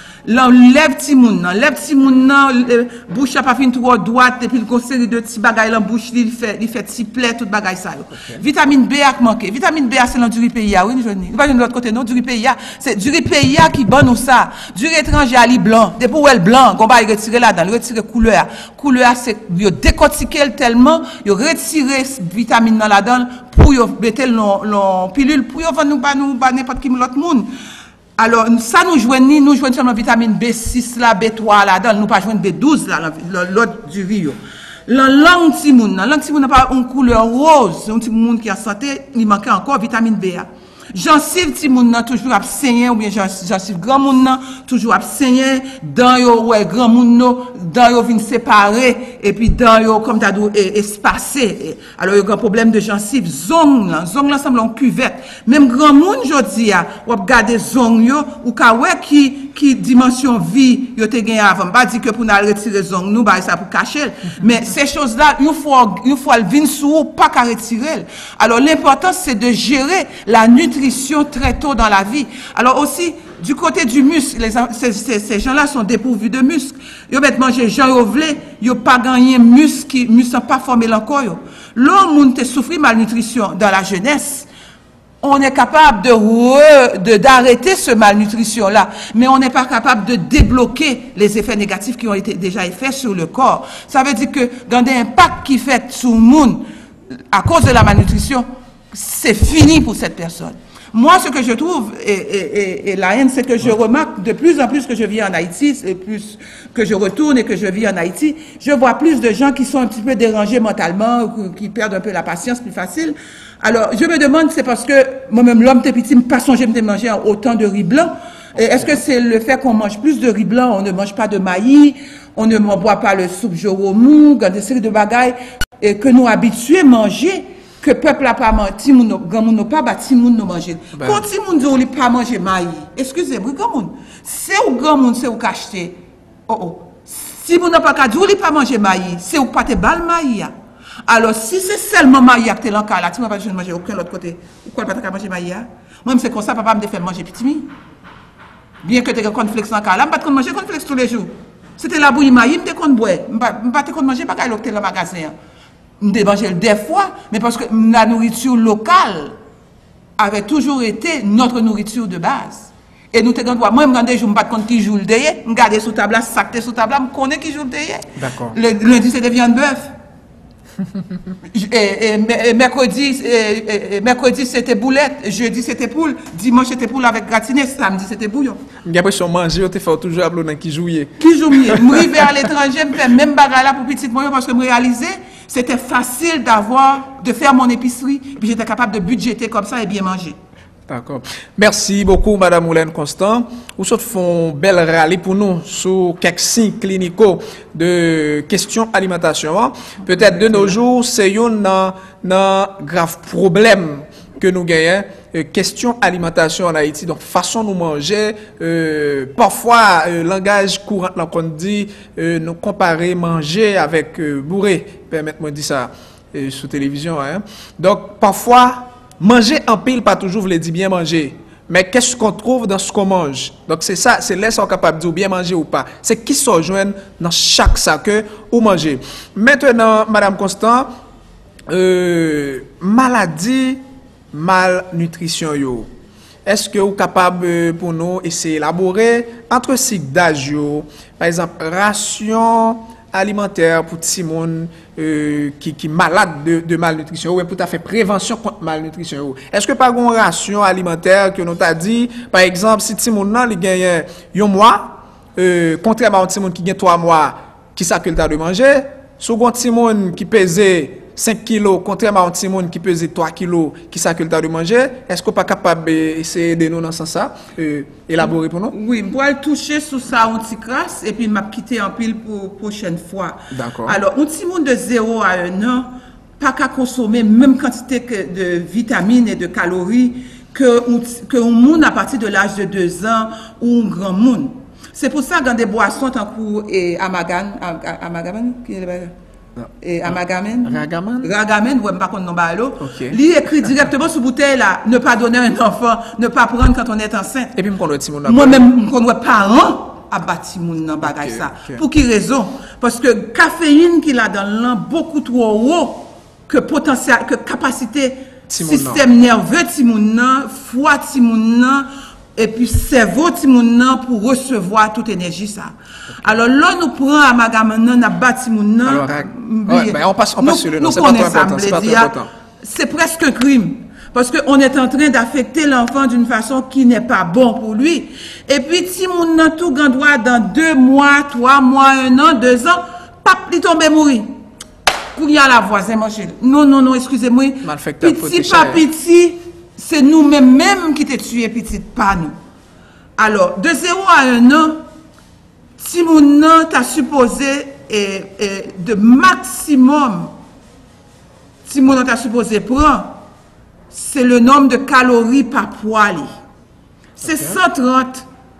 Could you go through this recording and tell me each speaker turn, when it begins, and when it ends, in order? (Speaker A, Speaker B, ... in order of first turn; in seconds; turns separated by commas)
Speaker A: 0.2-27.5, Speaker A: 28.2-84.5, Speaker A: 85.2-96.7, Speaker A: 97.3-140.5, Speaker B: 130.9-131.2, Speaker A: 141.1-147.7, Speaker A: 148.8-155.3, Speaker A: 156.0-159.3, Speaker A: 160.2-169.9, Speaker B: 168.2-168.6, Speaker A: 171.5-178.6, Speaker B: 178.8-182.3, Speaker A: 181.2-190.4, Speaker B: 190.9-230.9, Speaker B: 231.7-235.9, Speaker B: 236.4-268.7, Speaker A: 268.7-289.1, Speaker B: 273.5-274.0, Speaker B: 289.6-291.3, Speaker A: 289.8-297.6, Speaker B: 292.8-293.2, Speaker B: 297.6-298.7, Speaker A: 298.2-334.3, Speaker B: 301.0-301.8, Speaker B: 308.5-309.0, Speaker B: 318.9-322.3, Speaker A: 335.1-342.4, Speaker B: 337.6-338.8, Speaker A: 343.2-344.8, Speaker A: 345.8-350.3, Speaker A: 351.7-353.2, Speaker A: 353.9-356.3, Speaker B: 357.2-357.6, Speaker A: 357.2-358.2